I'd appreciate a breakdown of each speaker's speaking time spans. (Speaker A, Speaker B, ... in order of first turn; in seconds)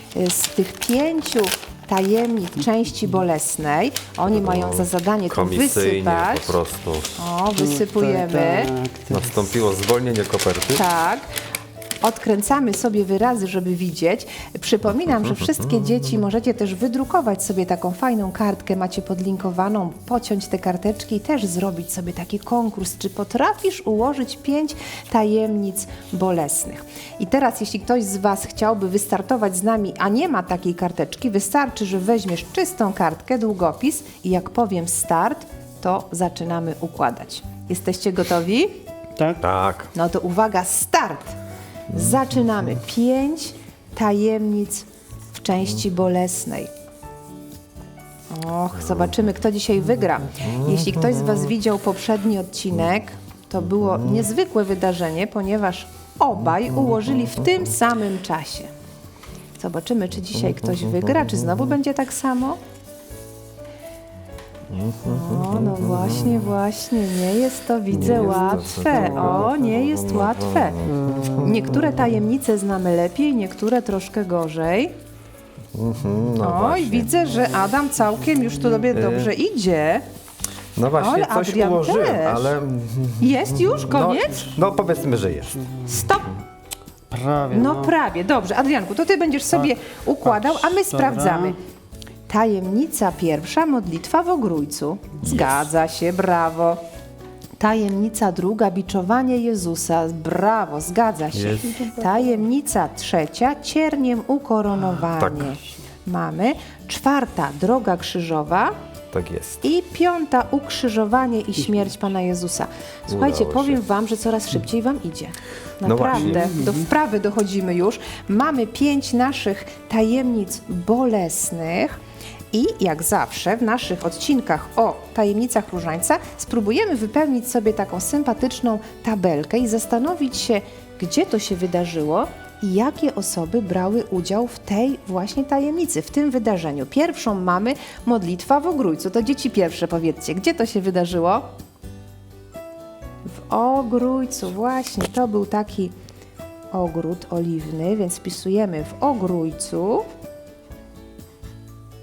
Speaker A: 0.1-6.6, 7.2-8.8, 10.7-11.3, 12.0-38.8, 39.9-41.4, 41.9-46.7, 48.3-58.7, 59.6-62.6, 65.0-74.9, 76.4-80.0, 80.9-82.6, 83.2-84.6, 85.8-86.4, 87.5-91.6, 92.3-96.8, 97.6-108.7, 109.6-122.0, 122.5-141.5, 143.3-145.9, 146.7-150.1
Speaker B: 4.3-7.2, 9.1-10.8, 14.9-16.0, 39.4-39.9, 41.9-42.2, 50.4-51.4, 54.0-54.3, 60.5-61.6, 64.7-66.5, 67.9-71.4, 75.8-77.1, 78.9-79.3, 80.8-85.6, 101.3-101.8, 105.2-105.6, 109.1-109.6, 113.1-113.8, 115.8-116.5
Speaker C: 7.5-9.5, 39.2-39.4, 68.0-69.5, 70.9-72.0, 85.3-85.9, 87.1-87.9, 90.2-91.6, 116.1-116.9